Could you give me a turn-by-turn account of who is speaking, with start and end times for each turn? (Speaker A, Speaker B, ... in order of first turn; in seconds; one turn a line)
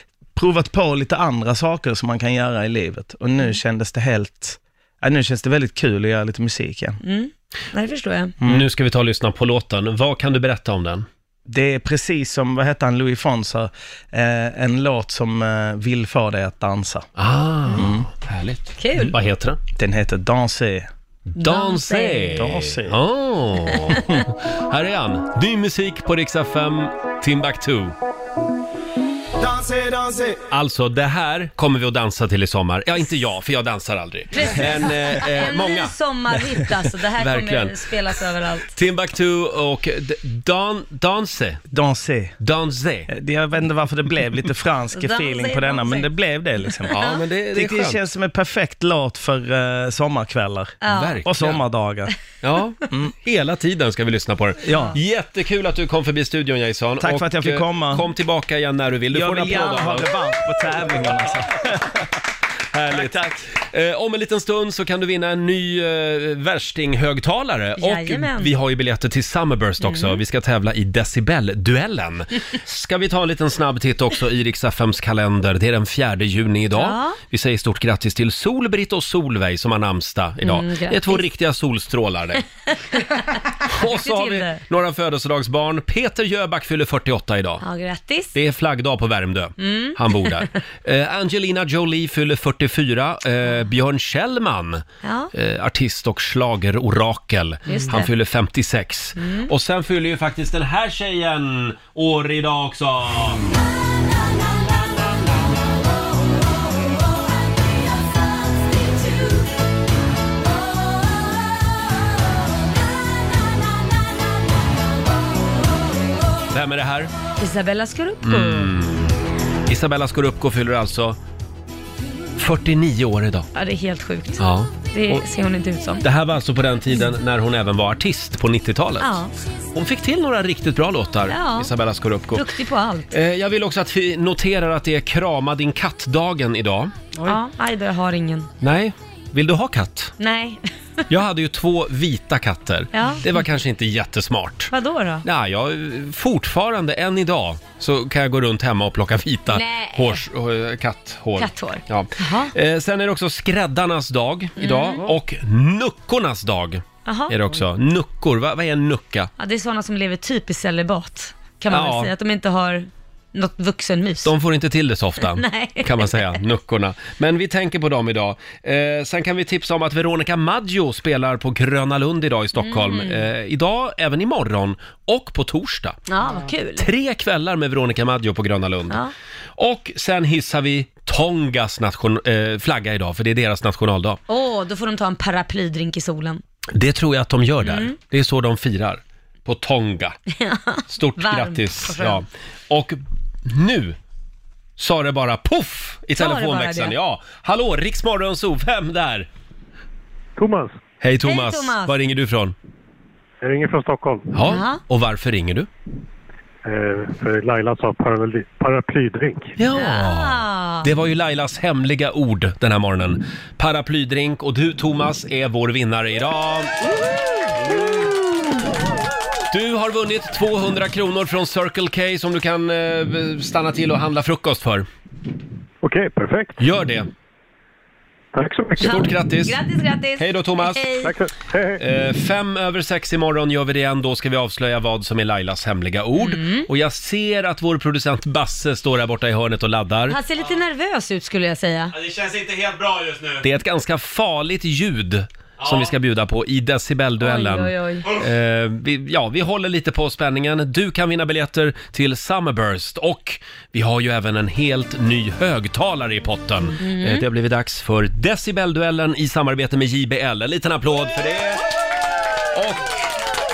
Speaker A: 0.3-7.0
Speaker B: 7.0-8.3
Speaker A: 8.4-8.7
Speaker C: 8.4-11.1
Speaker A: 11.5-17.1
Speaker C: 17.2-19.6
Speaker A: 17.8-18.1
Speaker B: 18.8-19.1
Speaker A: 19.8-20.9
Speaker C: 21.3-27.9
Speaker B: 21.4-22.4
Speaker A: 22.4-23.0
Speaker B: 23.7-24.0
Speaker A: 29.4-30.4
Speaker C: 30.5-36.0
Speaker B: 34.3-38.7
Speaker C: 37.2-37.9
Speaker C: 38.7-41.6
Speaker A: 41.7-42.4
Speaker C: 42.4-43.1
Speaker A: 43.1-52.1
Speaker B: 44.9-46.1
Speaker B: 46.7-47.2
Speaker C: 46.9-48.0
Speaker B: 50.8-51.2
Speaker C: 50.9-51.6
Speaker C: 52.4-61.5
Speaker A: 54.6-54.9
Speaker A: 57.0-58.1
Speaker A: 59.1-62.0
Speaker C: 62.7-82.4
Speaker A: 62.9-63.4
Speaker B: 67.8-68.5
Speaker B: 69.8-70.2
Speaker B: 76.7-77.2
Speaker B: 80.4-81.2
Speaker B: 82.7-84.6
Speaker C: 83.7-87.6
Speaker B: 87.6-88.3
Speaker C: 88.3-103.4
Speaker B: 89.6-90.5
Speaker B: 95.0-95.3
Speaker B: 97.7-98.1
Speaker B: 99.2-99.5
Speaker C: 116.5-117.1
Speaker B: 117.4-118.7
Speaker C: 118.2-119.2
Speaker C: 119.7-121.2
Speaker C: 122.4-123.5
Speaker B: 123.5-126.0
Speaker C: 124.4-125.3
Speaker C: 126.0-129.2
Speaker B: 129.0-129.3
Speaker C: 129.7-132.5
Speaker B: 131.3-131.7
Speaker B: 132.3-133.1
Speaker C: 133.1-136.9
Speaker B: 137.2-138.5
Speaker C: 138.6-140.1
Speaker B: 140.2-140.6
Speaker C: 141.1-144.7
Speaker B: 142.9-143.4
Speaker B: 144.7-145.2
Speaker C: 145.2-159.3
Speaker B: 149.5-150.2
Speaker B: 151.4-152.5
Speaker B: 154.6-155.1
Speaker B: 157.1-157.6
Speaker B: 159.4-164.3
Speaker C: 161.7-162.1
Speaker C: 164.2-176.1
Speaker B: 165.2-166.4
Speaker B: 172.6-173.3
Speaker B: 176.1-176.9
Speaker C: 176.8-179.0
Speaker C: 179.6-184.2
Speaker B: 184.3-186.4
Speaker C: 186.7-190.2
Speaker B: 187.6-188.0
Speaker B: 190.3-192.2
Speaker C: 190.9-194.0
Speaker C: 194.8-199.3
Speaker B: 196.2-197.0
Speaker D: 200.4-200.8
Speaker C: 201.0-202.6
Speaker B: 201.2-201.9
Speaker D: 203.4-204.3
Speaker C: 204.3-205.7
Speaker B: 204.4-204.8
Speaker D: 206.6-209.6
Speaker C: 209.6-218.5
Speaker B: 209.7-210.9
Speaker C: 219.5-224.9
Speaker D: 225.8-226.6
Speaker C: 226.6-227.1
Speaker D: 228.3-229.1
Speaker B: 228.8-231.2
Speaker C: 228.8-229.6
Speaker C: 230.2-231.1
Speaker D: 231.0-231.8
Speaker C: 231.8-240.2
Speaker B: 236.2-236.7
Speaker B: 240.1-241.9
Speaker E: 241.9-243.4
Speaker C: 243.4-261.6
Speaker E: 245.6-245.9
Speaker B: 247.2-248.1
Speaker B: 256.8-257.2
Speaker C: 262.5-263.1